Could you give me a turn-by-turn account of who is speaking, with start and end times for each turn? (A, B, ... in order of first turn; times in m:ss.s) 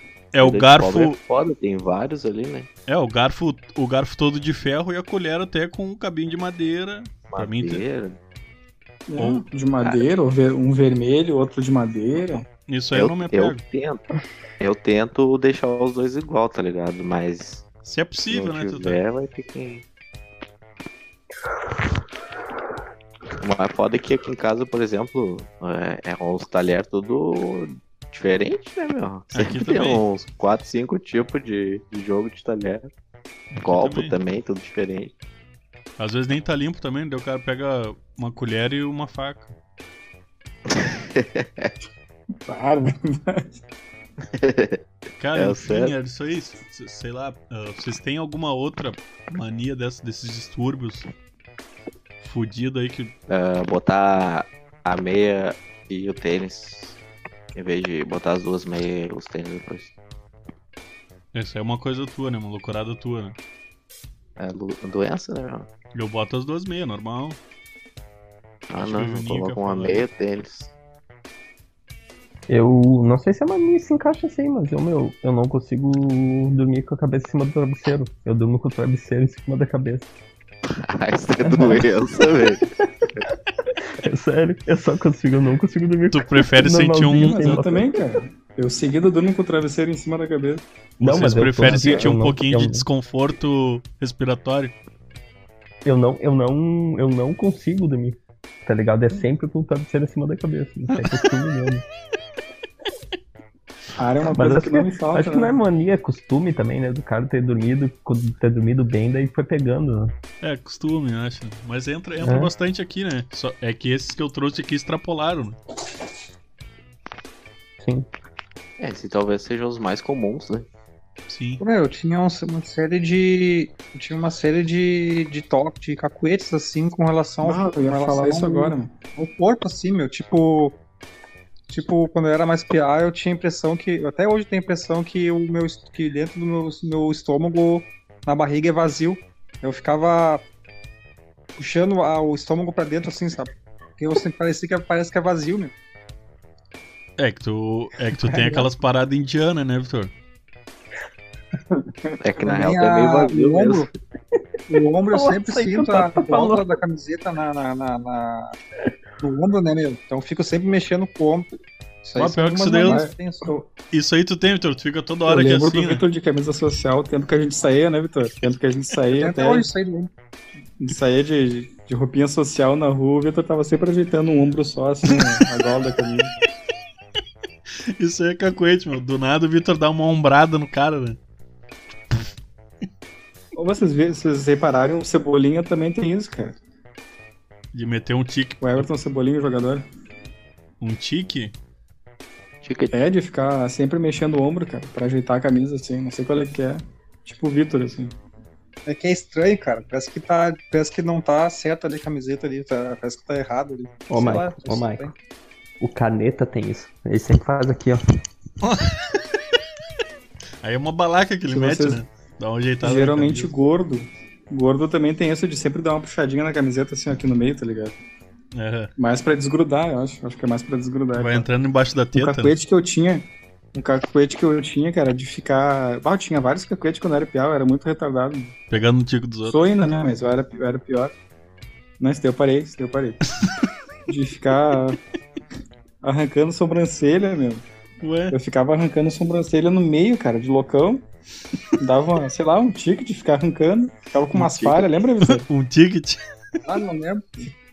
0:00.3-0:01.2 A
0:00.4-0:02.7 B
0:02.9-0:07.8 A
0:07.3-0:08.2 B
0:09.1-0:12.4 C
0:09.2-0:09.4 A
0:12.7-0:13.6 A
0:12.9-0:14.0 B
0:14.6-0:17.6 B
0:17.8-0:19.0 A
0:18.3-0:19.8 B
0:23.4-0:32.9 B
0:29.3-0:30.0 A
0:33.5-0:34.2 A
0:33.6-0:35.1 B
0:36.0-0:39.5 A
0:40.7-0:41.7 B
0:42.4-0:43.6 C
0:44.3-0:44.8 B
0:45.2-0:51.1 A
0:45.3-0:45.9 B
0:52.2-0:53.1 A
0:53.3-0:57.0 B
0:57.5-0:59.9 B
1:01.3-1:03.4 A
1:04.4-1:05.7 B
1:05.9-1:07.4 A
1:08.7-1:10.7 B
1:08.8-1:10.0 A
1:12.5-1:20.1 D
1:20.7-1:22.6 B
1:21.5-1:21.8 D
1:24.0-1:27.9 D
1:26.1-1:27.6 A
1:27.2-1:32.1 C
1:31.0-1:34.7 A
1:31.0-1:32.9 D
1:35.8-1:41.8 D
1:44.0-1:45.6 C
1:44.3-1:50.1 D
1:50.4-1:55.6 A
1:52.2-1:52.5 D
1:57.8-1:58.1 D
1:58.8-2:00.7 B
2:01.3-2:01.6 A
2:01.6-2:10.8 E
2:07.4-2:08.9 C
2:11.7-2:20.4 E
2:21.6-2:25.7 E
2:27.2-2:30.1 A
2:28.3-2:28.6 E
2:32.2-2:33.9 B
2:32.4-2:33.9 E
2:34.7-2:38.6 E
2:35.1-2:36.8 D
2:39.2-2:41.5 E
2:42.0-2:43.5 E
2:42.1-2:43.1 A
2:42.8-2:43.6 C
2:43.9-2:46.0 A
2:45.2-2:49.7 C
2:49.1-2:50.1 E
2:50.8-2:56.3 C
2:58.0-3:01.2 A
3:03.5-3:06.6 C
3:07.7-3:08.9 A
3:08.6-3:09.8 C
3:10.8-3:11.5 A
3:12.6-3:12.9 B
3:12.9-3:18.2 C
3:18.8-3:25.1 E
3:24.1-3:25.1 D
3:25.8-3:28.0 D
3:28.6-3:29.2 A
3:30.6-3:33.5 A
3:31.5-3:32.0 C
3:32.8-3:38.0 C
3:38.5-3:38.9 A
3:39.0-3:41.5 C
3:41.1-3:42.5 A
3:42.1-3:48.5 C
3:48.7-3:49.6 A
3:49.4-3:51.1 C
3:52.0-3:53.2 C
3:54.1-3:55.0 C
3:56.0-3:57.6 C
3:58.0-3:58.4 A
3:58.3-4:01.0 C
4:01.8-4:05.4 C
4:04.3-4:06.2 A
4:06.6-4:07.5 E